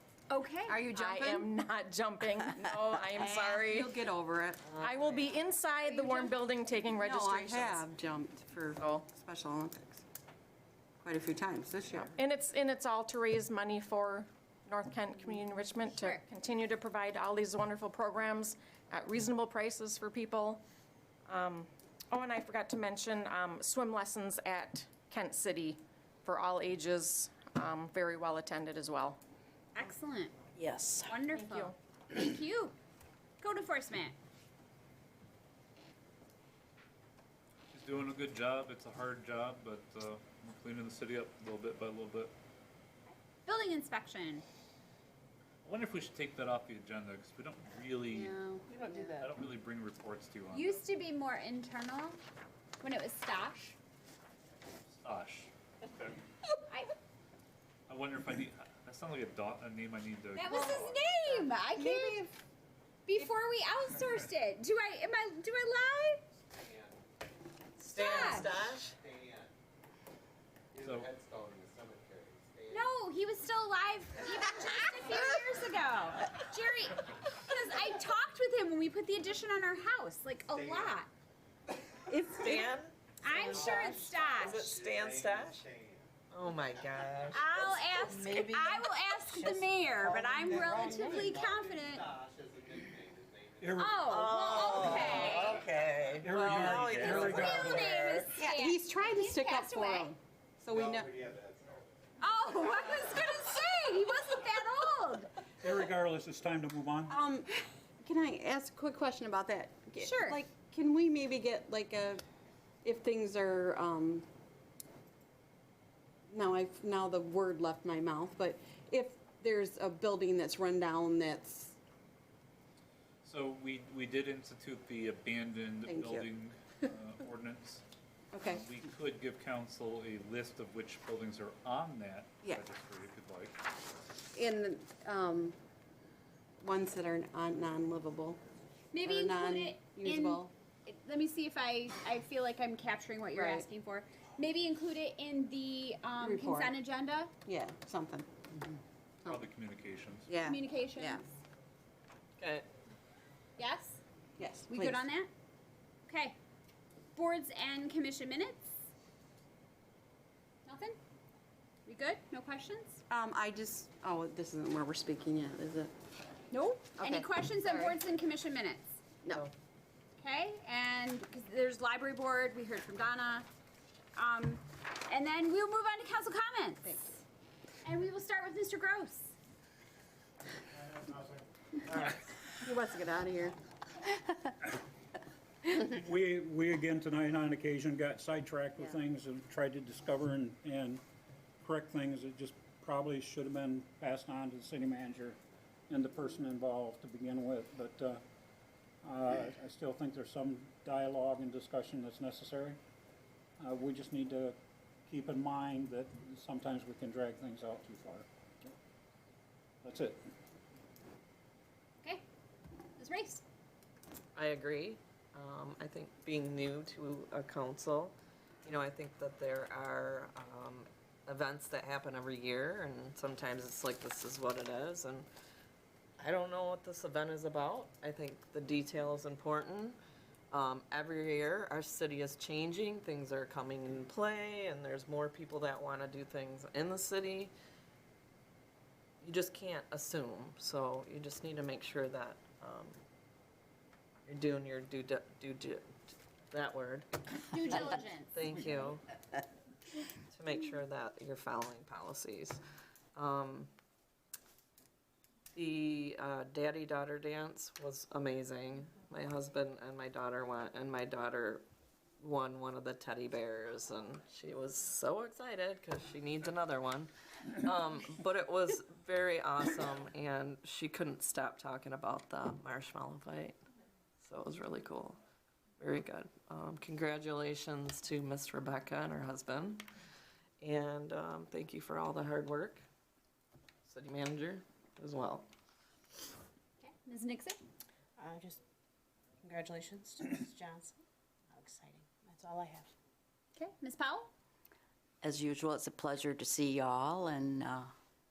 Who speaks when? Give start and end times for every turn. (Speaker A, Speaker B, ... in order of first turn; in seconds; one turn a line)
Speaker A: 0.3-0.9
Speaker B: 0.7-1.5
Speaker C: 0.9-4.0
Speaker B: 3.1-4.8
Speaker C: 4.7-7.8
Speaker A: 5.8-6.3
Speaker B: 7.0-10.0
Speaker B: 11.0-12.2
Speaker C: 11.9-20.6
Speaker A: 15.9-16.2
Speaker C: 21.2-29.2
Speaker A: 29.7-30.4
Speaker D: 30.5-31.2
Speaker A: 31.1-32.8
Speaker C: 31.3-31.7
Speaker A: 33.4-34.2
Speaker E: 37.7-42.3
Speaker A: 43.1-44.4
Speaker E: 45.6-48.4
Speaker A: 48.1-48.6
Speaker F: 48.7-49.3
Speaker E: 49.2-50.8
Speaker A: 50.5-52.2
Speaker A: 52.8-53.8
Speaker E: 54.9-56.2
Speaker A: 56.7-57.0
Speaker E: 57.9-61.0
Speaker A: 60.3-62.3
Speaker B: 61.7-62.2
Speaker A: 63.0-66.2
Speaker G: 66.5-67.0
Speaker A: 67.8-68.5
Speaker H: 67.8-69.0
Speaker G: 68.2-69.5
Speaker G: 70.7-73.0
Speaker E: 70.8-71.1
Speaker A: 72.7-81.1
Speaker G: 80.5-81.0
Speaker B: 82.1-82.7
Speaker H: 82.3-85.7
Speaker A: 83.2-84.7
Speaker F: 83.3-83.8
Speaker G: 83.5-87.5
Speaker H: 86.3-87.4
Speaker A: 87.3-92.1
Speaker F: 87.5-91.1
Speaker G: 90.9-97.8
Speaker I: 93.6-94.0
Speaker A: 93.7-95.6
Speaker H: 94.0-98.3
Speaker I: 96.2-97.9
Speaker A: 97.2-100.1
Speaker B: 98.3-101.1
Speaker G: 100.7-101.8
Speaker A: 102.2-105.4
Speaker I: 105.6-107.2
Speaker B: 107.0-112.2
Speaker A: 110.0-110.4
Speaker B: 112.8-114.2
Speaker B: 116.3-121.8
Speaker E: 123.2-127.8
Speaker B: 125.8-126.3
Speaker B: 128.3-128.7
Speaker E: 128.4-133.6
Speaker B: 134.3-135.6
Speaker B: 136.6-138.4
Speaker A: 138.9-147.3
Speaker B: 139.0-140.5
Speaker B: 143.3-143.7
Speaker B: 146.2-146.8
Speaker B: 147.4-149.4
Speaker E: 149.2-150.3
Speaker B: 150.3-151.2
Speaker A: 150.4-151.3
Speaker H: 152.4-152.7
Speaker A: 153.6-154.0
Speaker B: 154.4-155.1
Speaker A: 154.7-155.3
Speaker A: 156.1-156.4
Speaker A: 157.1-158.7
Speaker A: 160.6-161.0
Speaker A: 161.8-163.0
Speaker B: 163.1-165.9
Speaker A: 166.5-168.9
Speaker B: 167.0-168.0
Speaker A: 170.2-173.5
Speaker A: 174.1-177.2
Speaker A: 177.8-179.3
Speaker B: 182.1-183.6
Speaker I: 185.7-191.0
Speaker I: 191.6-198.2
Speaker I: 199.0-202.8
Speaker I: 203.6-204.6
Speaker I: 205.1-208.2
Speaker I: 209.8-210.2
Speaker A: 213.0-213.4
Speaker H: 214.3-225.3
Speaker H: 226.2-230.0
Speaker H: 230.5-237.5
Speaker H: 239.2-243.0
Speaker H: 244.2-245.9
Speaker H: 246.5-249.0
Speaker A: 247.5-248.6
Speaker H: 250.3-252.6
Speaker H: 253.2-253.7
Speaker H: 255.5-261.6
Speaker H: 262.2-273.6
Speaker H: 274.2-275.2
Speaker H: 275.8-279.9
Speaker H: 280.6-282.8
Speaker H: 283.9-285.5
Speaker A: 286.8-287.6
Speaker F: 288.2-288.6
Speaker F: 289.4-291.0
Speaker F: 291.5-292.9
Speaker A: 293.6-294.3
Speaker D: 295.2-297.9